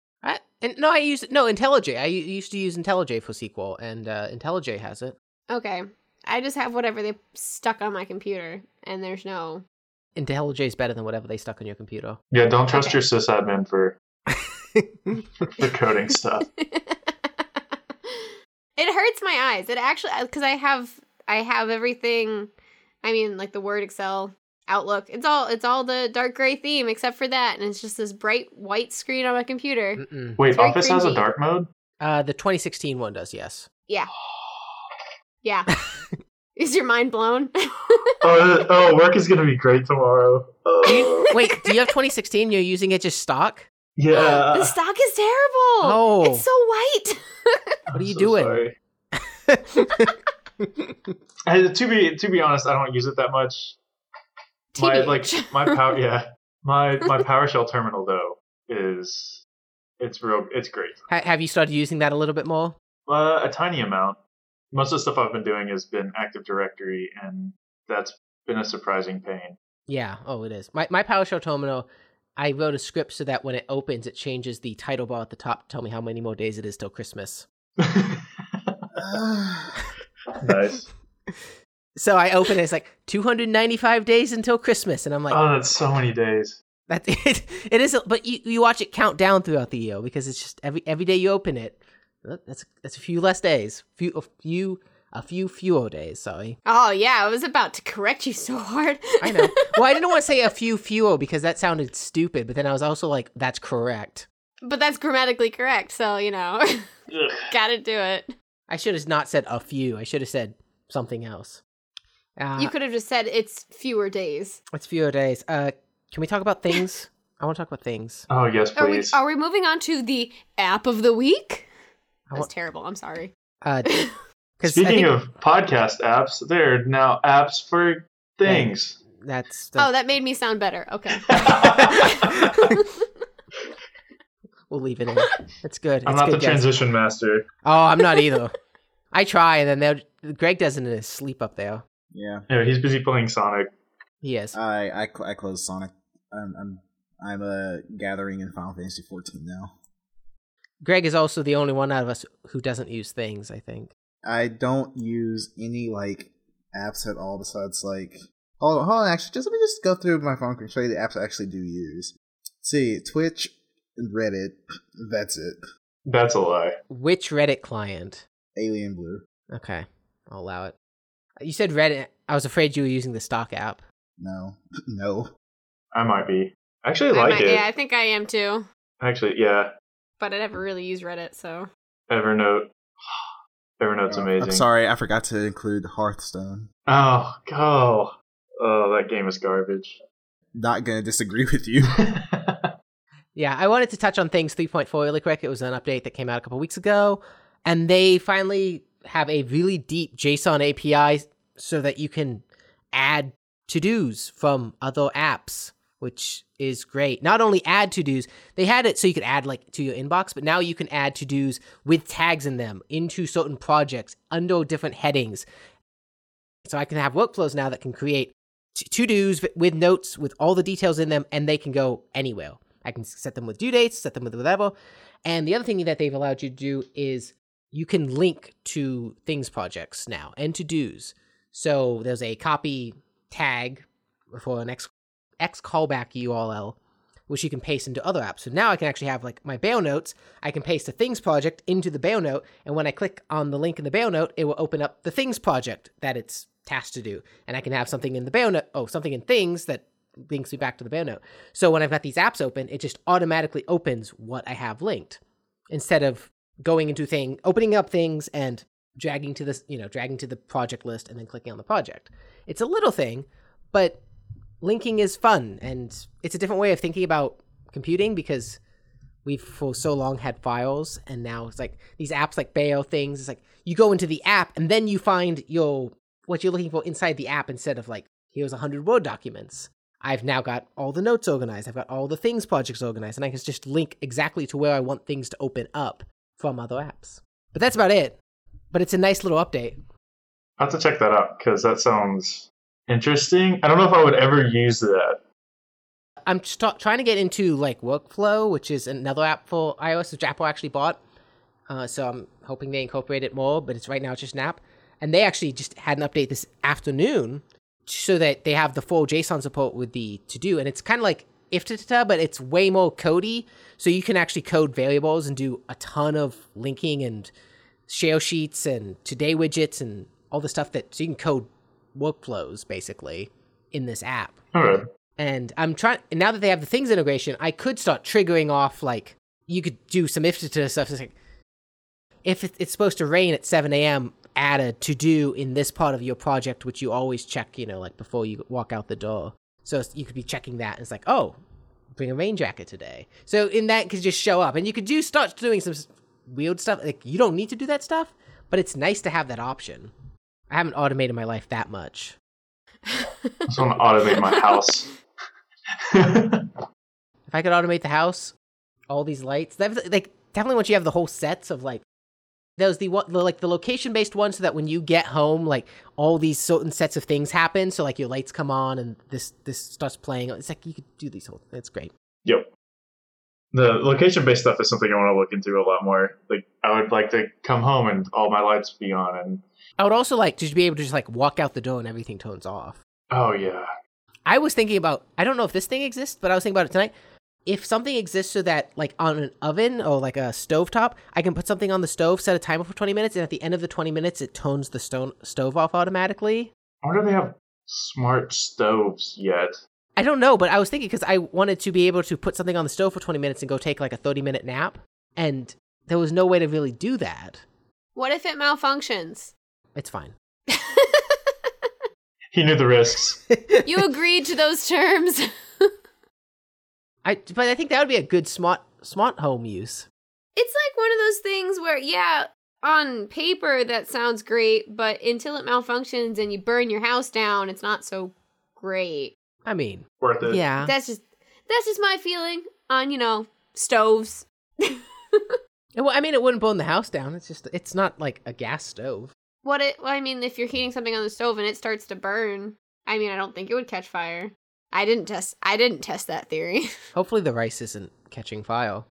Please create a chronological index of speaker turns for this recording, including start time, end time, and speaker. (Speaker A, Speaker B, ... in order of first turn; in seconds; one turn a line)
Speaker A: 0.2-5.2
Speaker B: 5.5-9.6
Speaker A: 10.2-12.2
Speaker C: 12.3-14.0
Speaker A: 14.3-15.2
Speaker C: 15.5-16.5
Speaker B: 16.6-17.4
Speaker B: 18.1-22.5
Speaker B: 23.0-31.2
Speaker A: 30.0-30.4
Speaker C: 30.4-31.7
Speaker A: 32.0-33.7
Speaker B: 35.4-35.8
Speaker B: 36.6-38.2
Speaker C: 38.2-41.3
Speaker A: 40.9-43.7
Speaker B: 40.9-41.8
Speaker C: 44.0-44.7
Speaker B: 44.1-47.8
Speaker A: 45.8-46.5
Speaker C: 47.9-48.8
Speaker A: 47.9-48.6
Speaker A: 49.1-51.0
Speaker C: 51.5-53.8
Speaker B: 54.7-55.8
Speaker C: 54.8-59.4
Speaker C: 60.0-61.0
Speaker A: 61.1-62.8
Speaker C: 63.1-64.2
Speaker C: 64.7-69.6
Speaker A: 69.9-71.9
Speaker A: 72.4-77.5
Speaker C: 77.8-78.8
Speaker D: 79.0-79.8
Speaker C: 80.4-80.9
Speaker A: 82.0-85.4
Speaker C: 85.3-86.6
Speaker A: 86.9-96.6
Speaker B: 96.7-100.0
Speaker A: 99.2-104.2
Speaker B: 104.6-106.9
Speaker C: 107.1-107.5
Speaker B: 107.5-108.3
Speaker A: 108.7-111.6
Speaker A: 112.4-112.7
Speaker B: 112.6-114.6
Speaker A: 114.7-118.2
Speaker C: 118.3-119.2
Speaker B: 118.8-121.7
Speaker B: 122.3-123.3
Speaker A: 123.6-123.9
Speaker B: 123.9-124.2
Speaker A: 124.6-125.1
Speaker C: 124.6-129.0
Speaker A: 128.4-129.9
Speaker B: 129.8-133.0
Speaker C: 131.2-132.3
Speaker A: 134.7-136.7
Speaker C: 136.1-137.4
Speaker A: 137.6-138.6
Speaker A: 139.1-141.8
Speaker D: 142.1-142.5
Speaker C: 142.5-143.7
Speaker A: 144.2-144.6
Speaker D: 144.5-149.7
Speaker A: 150.8-153.9
Speaker D: 154.2-165.6
Speaker C: 166.1-166.8
Speaker A: 166.9-168.2
Speaker D: 168.6-169.2
Speaker A: 169.5-170.7
Speaker A: 171.4-173.8
Speaker D: 174.2-175.3
Speaker C: 175.9-177.7
Speaker B: 177.1-178.7
Speaker C: 179.0-179.7
Speaker B: 180.2-181.7
Speaker C: 182.1-183.2
Speaker C: 183.8-184.6
Speaker D: 184.1-186.7
Speaker C: 186.9-190.0
Speaker D: 190.5-192.1
Speaker C: 192.0-192.7
Speaker A: 193.4-215.4
Speaker A: 216.7-224.7
Speaker A: 225.2-236.8
Speaker A: 237.3-255.2
Speaker A: 255.7-264.0
Speaker A: 264.6-268.6
Speaker A: 269.2-288.2
Speaker A: 288.7-289.8
Speaker C: 290.6-295.2
Speaker A: 296.3-301.0
Speaker A: 301.7-317.3
Speaker A: 317.9-324.4
Speaker C: 324.5-324.9
Speaker A: 325.2-331.1
Speaker A: 332.2-341.4
Speaker A: 342.0-349.9
Speaker A: 350.5-352.1
Speaker B: 353.0-353.3
Speaker C: 353.5-354.9
Speaker C: 355.9-356.5
Speaker A: 357.3-358.3
Speaker A: 358.9-361.8
Speaker A: 362.6-371.9
Speaker C: 373.5-379.4
Speaker A: 379.8-382.8
Speaker C: 383.1-383.7
Speaker A: 384.3-386.9
Speaker A: 387.5-396.5
Speaker C: 396.8-399.6
Speaker A: 400.0-407.4
Speaker B: 408.0-409.3
Speaker A: 409.8-410.1
Speaker B: 410.5-411.3
Speaker C: 412.3-413.2
Speaker A: 413.3-413.7
Speaker B: 413.6-415.7
Speaker A: 417.0-419.9
Speaker B: 420.4-429.1
Speaker A: 429.5-430.7
Speaker C: 430.0-430.4
Speaker B: 430.6-435.4
Speaker A: 435.8-439.1
Speaker B: 439.4-446.8
Speaker A: 446.9-448.9